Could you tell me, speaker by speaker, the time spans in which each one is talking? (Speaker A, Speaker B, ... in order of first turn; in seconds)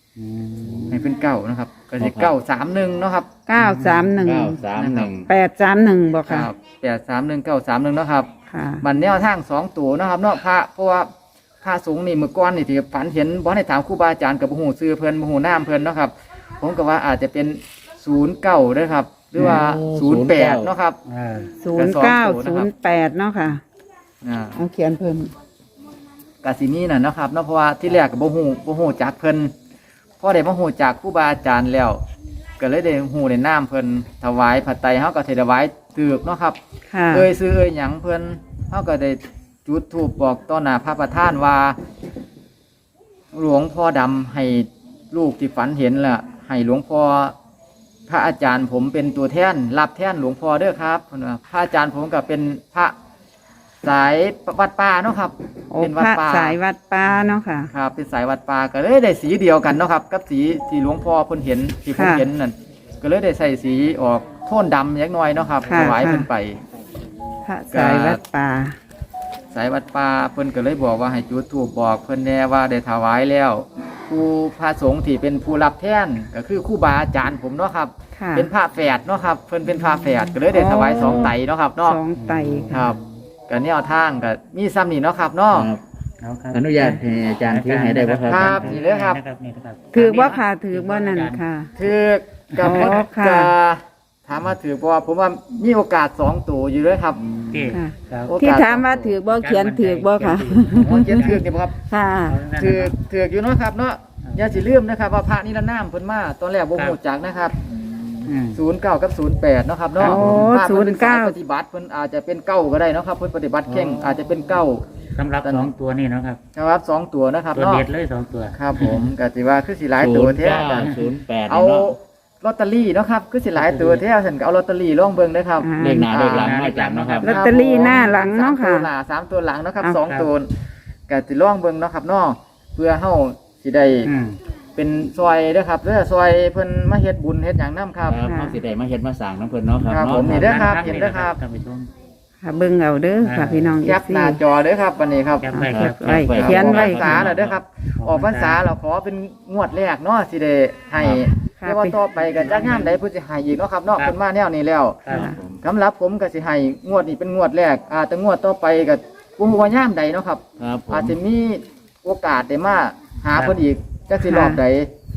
Speaker A: 0.2-1.1, 3.6-4.1, 21.1-21.5, 82.2-83.0, 86.2-91.4, 92.5-93.0, 97.3-98.3, 99.4-101.4, 102.3-102.9, 108.2-108.6, 110.0-110.4, 113.7-114.5, 115.2-116.4, 117.5-119.1, 120.6-121.0, 123.5-124.0, 126.3-128.0, 130.0-130.3, 134.0-134.4, 140.2-141.9, 143.2-143.8, 145.4-147.3, 148.0-148.6, 163.3-163.6
Speaker B: 0.9-3.3, 4.7-5.1, 6.2-11.1, 11.6-21.0, 21.8-22.7, 24.2-24.6, 26.4-29.5, 30.2-32.0, 32.6-36.6, 37.1-41.8, 43.3-47.4, 48.1-53.0, 53.8-56.6, 57.7-66.6, 67.7-68.2, 69.5-82.0, 82.7-85.7, 88.3-89.2, 91.8-97.2, 98.2-99.2, 100.8-101.8, 102.6-107.6, 108.5-114.8, 115.4-115.7, 116.5-117.8, 118.5-126.6, 127.2-130.5, 131.1-134.1, 134.8-138.2, 139.9-141.4, 143.8-145.5, 146.2-155.0, 155.6-164.9
Speaker C: 2.0-2.4, 4.2-5.3, 19.4-20.7, 85.5-85.8, 86.5-88.7, 120.0-122.0, 125.8-127.4, 138.1-140.9, 145.7-147.6, 151.0-151.3, 155.1-155.6, 160.6-161.2
Speaker D: 3.5-4.6, 5.3-6.5, 8.5-8.8, 21.6-23.6, 24.6-25.3, 36.9-37.3, 55.7-57.7, 62.0-62.2, 65.7-66.3, 67.5-68.8, 78.2-78.5, 80.5-82.8, 89.9-91.7, 92.6-93.5, 97.7-102.4, 110.0-111.4, 125.6-126.1, 127.2-128.9, 138.3-138.6, 142.4-144.4, 145.5-147.3, 151.6-152.0, 155.1-155.4, 164.2-164.6